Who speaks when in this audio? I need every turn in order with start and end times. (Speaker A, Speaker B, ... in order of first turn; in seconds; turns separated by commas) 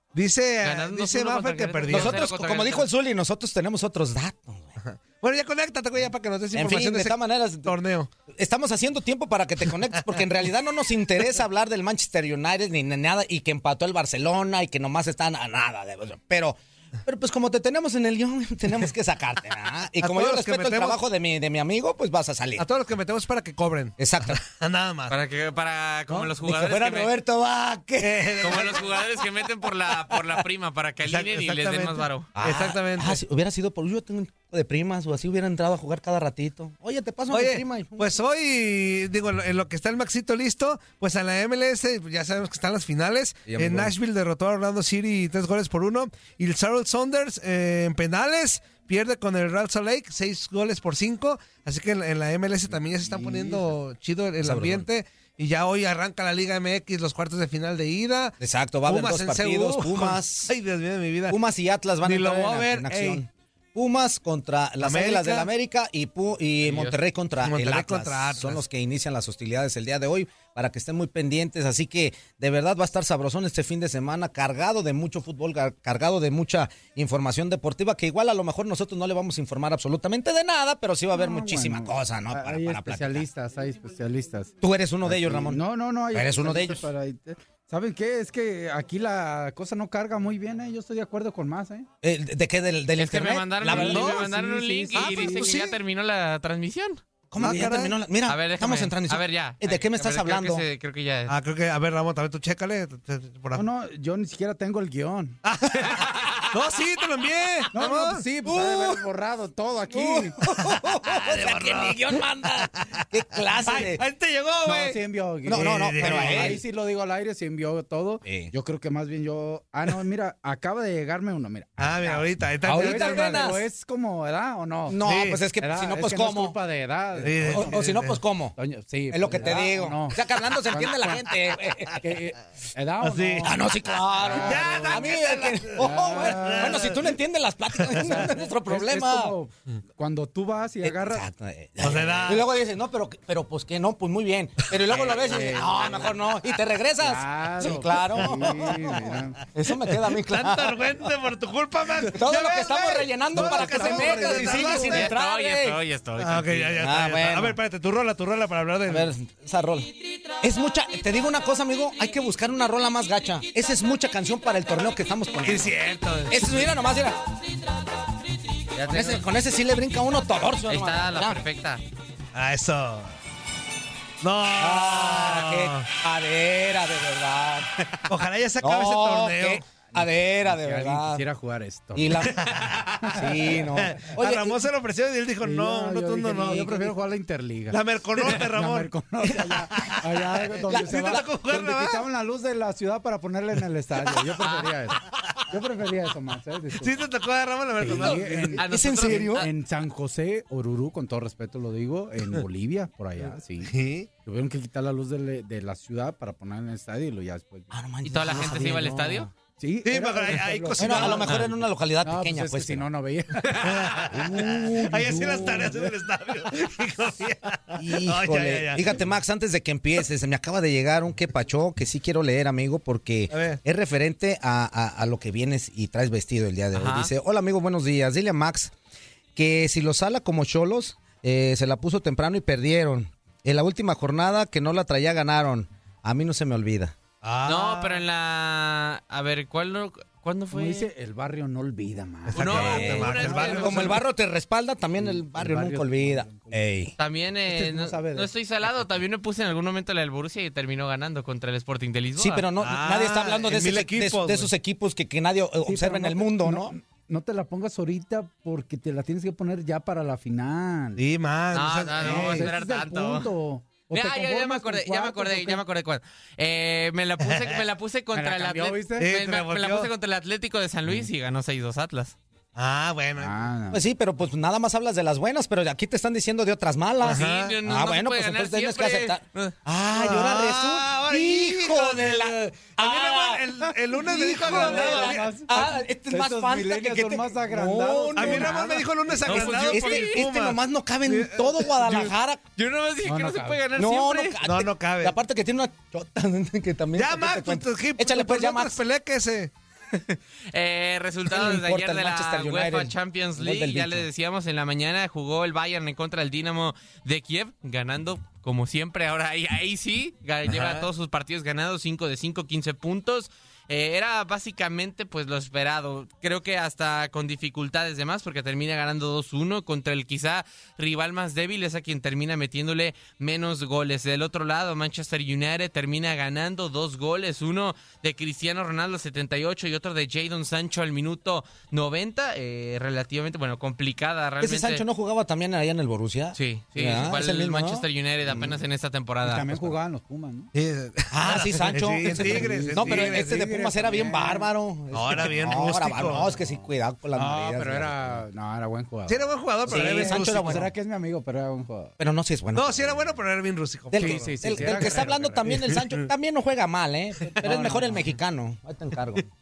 Speaker A: 0.1-2.3, Speaker B: 0.6-2.9, Speaker C: 1.9-4.8, Speaker A: 4.8-8.1, Speaker C: 6.5-7.8, Speaker C: 8.3-22.7, Speaker A: 20.0-21.0, Speaker A: 22.6-25.1, Speaker C: 24.0-24.4, Speaker B: 25.1-27.1, Speaker C: 26.1-28.9, Speaker A: 28.0-28.9, Speaker B: 28.4-32.3, Speaker A: 31.0-33.2, Speaker C: 32.4-38.2, Speaker A: 37.3-58.4, Speaker C: 43.5-43.9, Speaker C: 53.1-53.5, Speaker D: 53.2-53.6, Speaker C: 54.4-54.9, Speaker C: 58.4-60.5, Speaker A: 58.9-61.4, Speaker C: 61.3-83.3, Speaker A: 62.0-63.2, Speaker A: 64.8-65.5, Speaker B: 66.6-67.0, Speaker A: 67.4-68.6, Speaker D: 81.1-91.9, Speaker C: 84.6-86.8, Speaker C: 92.0-94.3, Speaker B: 93.0-97.0, Speaker D: 93.6-95.6, Speaker A: 94.9-95.8, Speaker C: 97.3-100.7, Speaker A: 97.4-98.0, Speaker D: 97.4-97.9, Speaker B: 98.3-101.3, Speaker A: 101.3-103.6, Speaker D: 103.5-105.4, Speaker A: 105.4-108.2, Speaker B: 105.8-106.5, Speaker D: 107.7-110.4, Speaker C: 108.5-109.0, Speaker C: 109.9-114.0, Speaker A: 110.6-113.0, Speaker A: 113.6-116.6, Speaker D: 114.7-125.0, Speaker C: 115.5-116.6, Speaker C: 118.2-118.5, Speaker A: 121.8-123.5, Speaker C: 122.7-123.7, Speaker C: 124.9-126.6, Speaker A: 125.0-125.4, Speaker D: 125.6-127.8, Speaker A: 127.2-128.2, Speaker C: 127.4-128.6, Speaker D: 128.6-131.3, Speaker C: 129.1-132.2, Speaker D: 132.0-133.7, Speaker A: 133.0-133.5, Speaker C: 133.4-139.3, Speaker D: 134.2-135.1, Speaker A: 134.2-137.1, Speaker D: 135.8-137.1, Speaker A: 137.8-138.3, Speaker D: 138.0-141.3, Speaker C: 140.8-151.1, Speaker A: 141.8-142.5, Speaker D: 145.0-146.1, Speaker D: 147.0-149.4, Speaker A: 150.0-155.1, Speaker C: 152.1-155.8, Speaker D: 153.3-155.1, Speaker B: 154.8-156.8, Speaker A: 156.2-159.1, Speaker C: 156.8-157.6, Speaker C: 158.9-167.2, Speaker A: 165.4-166.7, Speaker B: 168.8-169.2, Speaker C: 168.8-171.4, Speaker B: 170.7-171.8, Speaker A: 172.3-173.1, Speaker A: 174.2-175.9, Speaker C: 174.5-177.7, Speaker A: 178.0-179.6, Speaker C: 178.6-181.2, Speaker D: 179.9-182.4, Speaker C: 181.9-182.4, Speaker A: 182.2-186.7, Speaker D: 183.0-183.7, Speaker C: 183.1-184.6, Speaker D: 185.4-197.1, Speaker C: 186.4-186.9, Speaker A: 187.7-188.9, Speaker A: 189.7-192.1, Speaker C: 190.7-191.3, Speaker B: 194.4-194.7, Speaker A: 196.8-198.7, Speaker D: 197.8-203.7, Speaker C: 198.0-199.5, Speaker B: 198.6-199.5, Speaker A: 203.2-204.1, Speaker D: 204.2-207.7, Speaker C: 207.7-209.3, Speaker B: 208.1-209.3, Speaker D: 208.3-208.8, Speaker D: 209.6-216.0, Speaker A: 209.8-211.5, Speaker C: 210.8-212.9, Speaker A: 213.6-219.0, Speaker C: 214.3-215.4, Speaker C: 217.8-228.8, Speaker A: 223.3-223.6, Speaker B: 226.7-227.1, Speaker C: 229.4-237.0, Speaker A: 237.2-238.0, Speaker B: 237.4-240.9, Speaker D: 240.5-244.0, Speaker A: 242.3-244.0, Speaker B: 242.3-244.0, Speaker C: 242.5-246.9, Speaker D: 245.0-246.6, Speaker B: 247.0-252.4, Speaker D: 247.5-248.3, Speaker C: 252.2-256.8, Speaker A: 252.6-254.5, Speaker D: 255.7-261.0, Speaker A: 261.0-262.5, Speaker B: 261.5-263.3, Speaker D: 261.9-265.6, Speaker B: 263.9-272.2, Speaker A: 267.2-267.6, Speaker D: 268.1-269.1, Speaker A: 269.0-269.9, Speaker A: 272.6-273.4, Speaker D: 273.2-273.8, Speaker C: 273.7-283.6, Speaker B: 277.0-279.6, Speaker A: 277.0-277.6, Speaker A: 279.9-285.3, Speaker D: 283.9-289.5, Speaker C: 284.3-288.6, Speaker B: 284.4-285.1, Speaker A: 288.2-291.7, Speaker C: 289.3-292.4, Speaker B: 289.3-290.2, Speaker B: 291.9-294.4, Speaker D: 293.0-293.6, Speaker C: 293.7-298.8, Speaker A: 294.4-295.2, Speaker A: 297.0-299.5, Speaker B: 299.9-334.8, Speaker C: 301.3-304.1, Speaker A: 310.5-310.9, Speaker C: 334.4-338.6, Speaker B: 336.3-339.8, Speaker D: 339.2-340.5, Speaker A: 340.5-343.5, Speaker C: 341.1-348.2, Speaker D: 342.0-344.5, Speaker A: 344.9-346.4, Speaker D: 347.1-351.9, Speaker A: 349.1-350.7, Speaker C: 349.7-350.7, Speaker C: 352.0-353.2, Speaker A: 352.6-356.1, Speaker C: 353.9-359.3, Speaker D: 353.9-355.6, Speaker D: 357.4-358.0